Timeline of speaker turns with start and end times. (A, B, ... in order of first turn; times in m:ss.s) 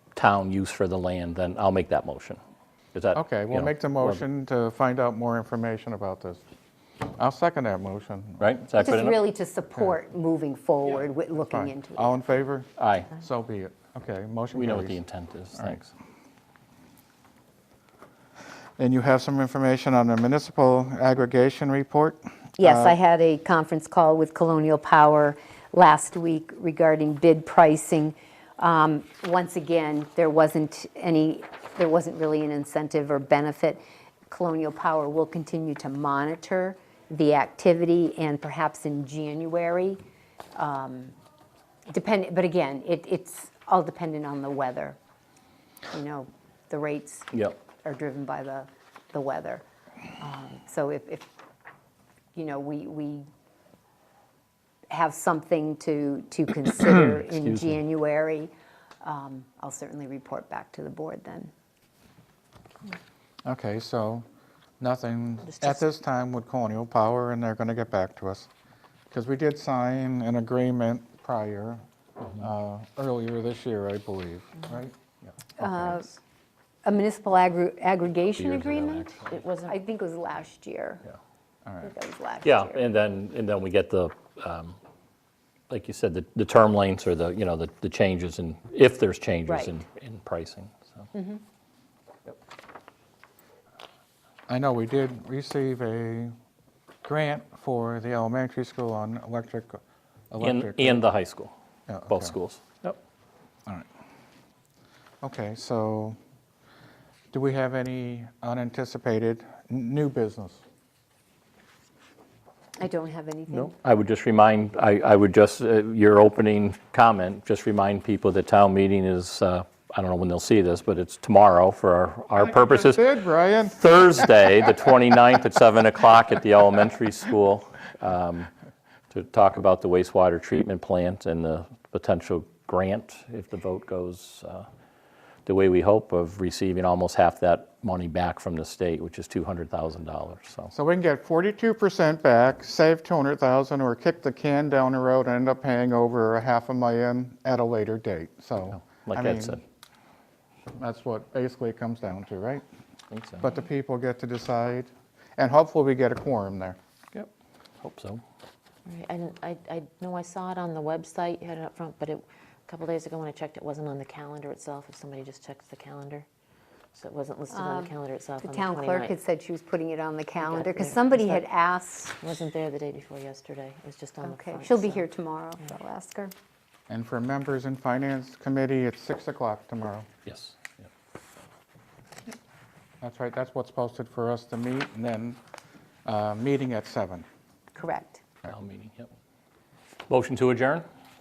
0:00.2-0:02.4 A
0:02.9-0:04.2 A
0:03.1-0:06.4 B
0:07.2-0:08.5 B
0:08.4-0:09.2 A
0:08.8-0:12.2 C
0:11.5-0:15.0 B
0:12.8-0:13.1 A
0:14.5-0:15.9 A
0:18.8-0:23.0 B
0:22.6-0:40.0 C
0:40.6-0:41.1 C
0:41.9-0:45.0 C
0:45.9-0:49.6 C
0:50.2-0:51.3 C
0:52.4-0:53.3 C
0:54.9-1:01.5 C
0:57.1-0:57.8 A
1:03.4-1:04.2 B
1:04.8-1:08.5 B
1:09.1-1:11.8 B
1:12.4-1:15.0 B
1:15.6-1:16.1 C
1:16.8-1:19.1 C
1:18.4-1:19.3 A
1:19.3-1:19.8 D
1:19.6-1:21.0 C
1:21.6-1:21.9 B
1:21.8-1:22.9 C
1:22.4-1:24.8 A
1:25.7-1:31.1 A
1:29.5-1:29.7 C
1:31.1-1:31.4 C
1:34.5-1:36.3 B
1:37.0-1:39.8 B
1:40.3-1:41.0 B
1:40.4-1:41.5 A
1:41.9-1:42.4 B
1:42.1-1:43.0 A
1:45.2-1:46.2 B
1:47.3-1:50.6 B
1:52.8-1:53.7 C
1:53.5-2:03.1 A
2:02.4-2:03.8 B
2:03.7-2:08.5 A
2:09.1-2:14.7 A
2:15.5-2:20.7 A
2:20.7-2:29.6 B
2:28.8-2:29.6 A
2:30.8-2:32.6 B
2:33.1-2:33.4 A
2:33.4-2:36.8 B
2:37.8-2:38.2 A
2:38.9-2:46.3 D
2:46.9-2:49.2 D
2:47.5-2:52.2 C
2:50.4-2:51.4 D
2:52.2-2:55.0 D
2:54.2-2:56.3 C
2:56.9-3:00.1 B
3:00.3-3:00.8 A
3:03.0-3:05.4 B
3:06.0-3:07.3 B
3:07.7-3:08.2 C
3:08.4-3:09.1 A
3:10.1-3:10.9 A